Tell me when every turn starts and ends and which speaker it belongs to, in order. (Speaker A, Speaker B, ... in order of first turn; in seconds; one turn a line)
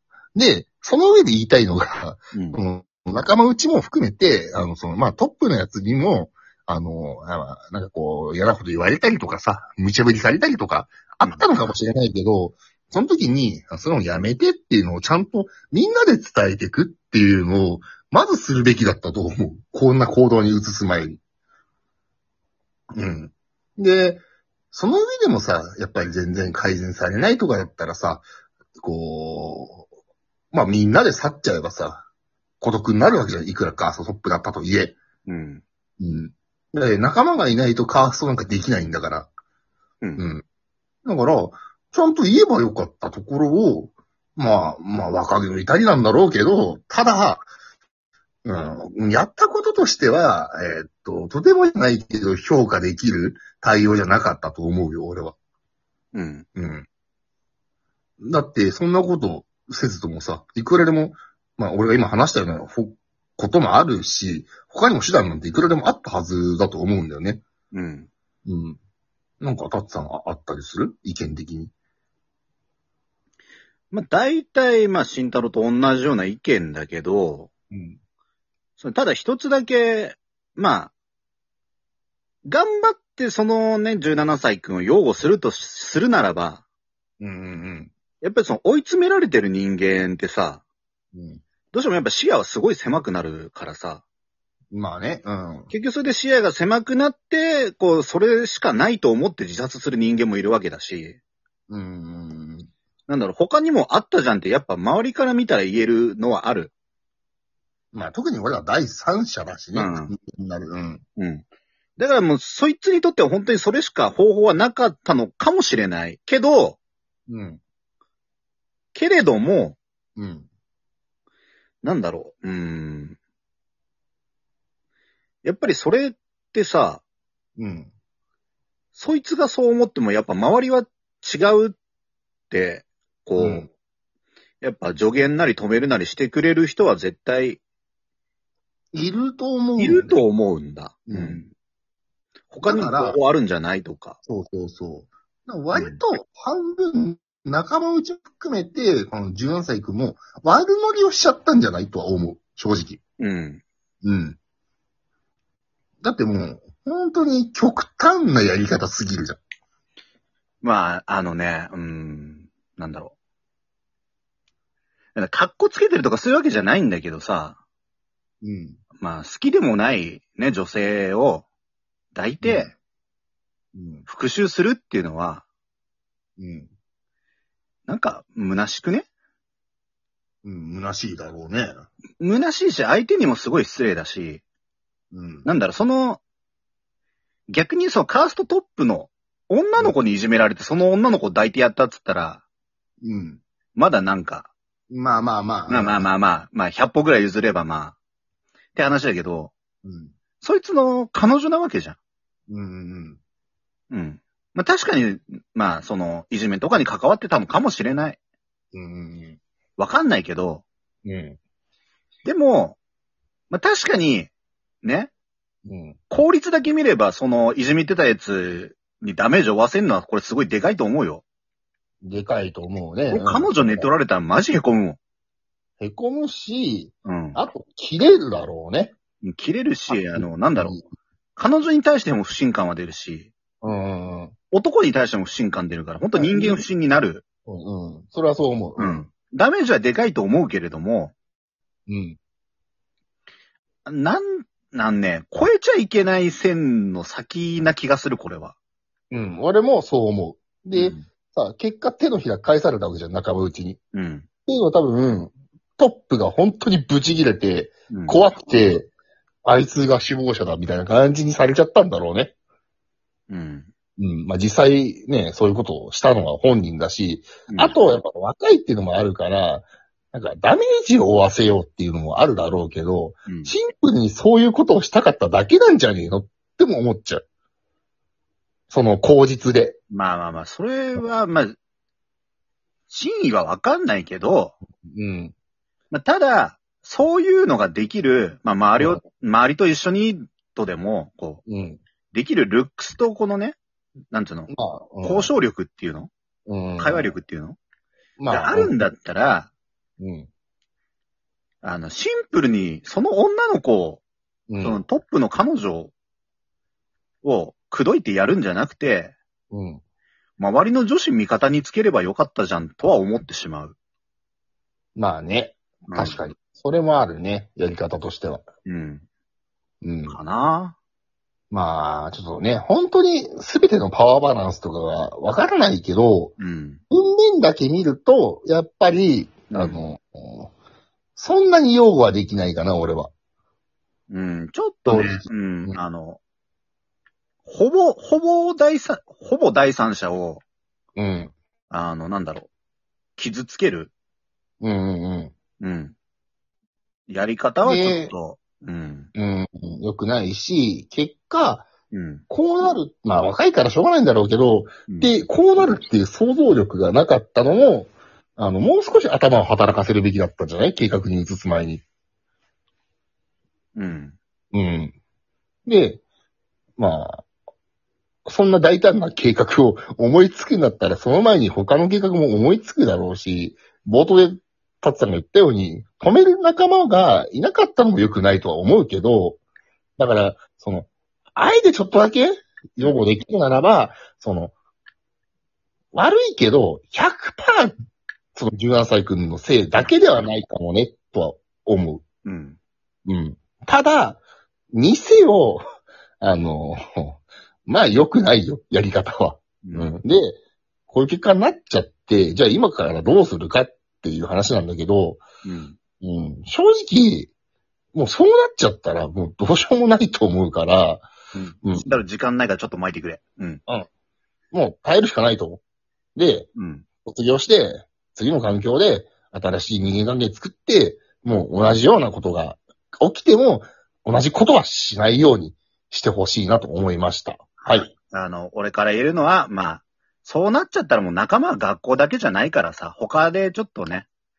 Speaker A: 0.3-21.2
Speaker B: 2.3-2.6
Speaker B: 11.2-11.5
Speaker A: 22.9-28.3
Speaker A: 28.8-29.9
Speaker A: 30.5-32.0
Speaker A: 32.6-35.0
Speaker B: 35.3-35.6
Speaker A: 36.0-39.3
Speaker A: 40.2-40.4
Speaker A: 41.0-47.5
Speaker A: 48.5-55.4
Speaker B: 56.1-56.5
Speaker A: 56.6-56.9
Speaker A: 58.2-67.4
Speaker B: 67.7-68.1
Speaker A: 68.5-68.8
Speaker A: 69.4-71.7
Speaker B: 73.9-77.5
Speaker A: 77.7-78.0
Speaker B: 78.8-80.9
Speaker B: 82.5-86.6
Speaker A: 87.2-87.9
Speaker B: 88.2-90.6
Speaker A: 91.1-91.4
Speaker B: 91.7-94.0
Speaker A: 94.7-95.7
Speaker B: 95.7-101.2
Speaker A: 101.7-102.7
Speaker B: 103.1-106.7
Speaker A: 107.9-111.0
Speaker B: 109.7-110.1
Speaker B: 111.2-111.4
Speaker B: 112.0-116.8
Speaker A: 117.3-117.6
Speaker B: 118.9-119.8
Speaker A: 120.2-120.5
Speaker B: 121.8-123.2
Speaker B: 125.4-127.0
Speaker A: 127.6-127.9
Speaker B: 128.9-131.8
Speaker B: 132.5-133.7
Speaker A: 133.4-133.7
Speaker B: 134.6-137.6
Speaker A: 138.9-140.2
Speaker B: 139.8-141.5
Speaker A: 141.1-141.4
Speaker B: 142.5-144.2
Speaker A: 142.6-143.2
Speaker A: 144.3-153.0
Speaker B: 145.7-146.0
Speaker B: 153.2-153.6
Speaker A: 154.0-154.4
Speaker A: 156.0-159.4
Speaker B: 160.6-163.1
Speaker B: 165.2-167.6
Speaker A: 168.4-168.8
Speaker B: 169.0-171.5
Speaker B: 172.2-172.7
Speaker A: 172.4-172.7
Speaker A: 173.7-174.1
Speaker B: 174.1-175.4
Speaker A: 176.4-176.7
Speaker B: 177.9-179.1
Speaker A: 180.4-181.9
Speaker B: 182.2-184.4
Speaker A: 185.1-185.5
Speaker B: 185.4-186.2
Speaker B: 187.5-192.4
Speaker A: 193.0-193.4
Speaker B: 193.8-194.5
Speaker A: 194.9-196.1
Speaker B: 195.7-198.0
Speaker B: 198.8-199.5
Speaker A: 199.8-200.1
Speaker B: 200.4-202.0
Speaker A: 202.5-203.2
Speaker B: 203.9-208.2
Speaker A: 208.7-209.4
Speaker B: 209.8-210.6
Speaker A: 211.1-211.4
Speaker B: 212.2-212.8
Speaker B: 213.5-214.3
Speaker B: 214.8-215.1
Speaker A: 215.7-216.0
Speaker B: 216.1-221.2
Speaker A: 222.0-223.9
Speaker B: 223.1-225.0
Speaker A: 225.8-228.9
Speaker B: 227.1-227.4
Speaker B: 229.2-230.8
Speaker A: 229.9-230.8
Speaker B: 231.4-233.3
Speaker A: 233.6-234.3
Speaker B: 234.5-237.2
Speaker A: 236.2-236.7
Speaker A: 237.5-239.1
Speaker B: 238.8-241.2
Speaker A: 241.9-242.2
Speaker B: 243.9-248.6
Speaker A: 249.1-253.8
Speaker B: 250.7-251.1
Speaker B: 253.9-254.3
Speaker A: 254.5-258.9
Speaker B: 257.9-258.2
Speaker A: 259.4-262.3
Speaker B: 263.3-263.7
Speaker A: 264.0-277.2
Speaker B: 267.5-267.8
Speaker B: 273.3-273.6
Speaker A: 278.7-279.8
Speaker B: 279.9-281.6
Speaker B: 282.9-284.6
Speaker A: 284.8-285.3
Speaker B: 285.9-291.4
Speaker A: 291.5-291.8
Speaker B: 292.1-293.6
Speaker B: 294.1-294.5
Speaker A: 294.5-295.3
Speaker B: 295.0-296.1
Speaker A: 296.5-297.1
Speaker B: 296.8-297.6
Speaker A: 298.2-298.8
Speaker B: 298.3-299.5
Speaker A: 300.0-300.3
Speaker B: 301.6-304.0
Speaker A: 304.5-304.8
Speaker B: 304.6-305.9
Speaker B: 307.2-309.1
Speaker A: 309.5-309.8
Speaker B: 310.4-313.8
Speaker A: 314.9-318.4
Speaker B: 315.9-316.2
Speaker B: 318.6-319.0
Speaker A: 319.8-320.2
Speaker B: 320.1-320.8
Speaker A: 321.5-326.4
Speaker B: 326.4-326.8
Speaker A: 326.9-330.5
Speaker B: 329.5-329.8
Speaker A: 331.2-333.1
Speaker B: 334.1-336.2
Speaker A: 334.9-335.8
Speaker B: 337.4-340.4
Speaker A: 341.0-341.3
Speaker B: 341.7-342.5
Speaker B: 343.2-343.9
Speaker A: 344.6-345.3
Speaker B: 345.6-345.9
Speaker B: 347.1-349.1
Speaker A: 347.6-348.1
Speaker A: 349.1-351.7
Speaker B: 351.9-352.2
Speaker A: 352.3-361.8
Speaker B: 363.8-364.2
Speaker A: 364.5-364.9
Speaker A: 365.7-366.0
Speaker A: 366.8-367.3
Speaker A: 368.2-379.4
Speaker A: 380.0-384.5
Speaker A: 385.9-387.7
Speaker A: 388.4-392.0
Speaker B: 389.8-390.2
Speaker B: 392.2-392.6
Speaker A: 393.1-394.2
Speaker A: 394.7-395.6
Speaker A: 396.2-405.2
Speaker B: 399.6-399.9
Speaker B: 405.4-405.8
Speaker A: 406.0-407.3
Speaker A: 407.9-411.1
Speaker B: 411.3-413.6
Speaker A: 414.5-415.6
Speaker A: 416.1-416.5
Speaker B: 416.6-416.9
Speaker A: 417.1-427.9
Speaker B: 421.3-421.8
Speaker B: 427.6-434.1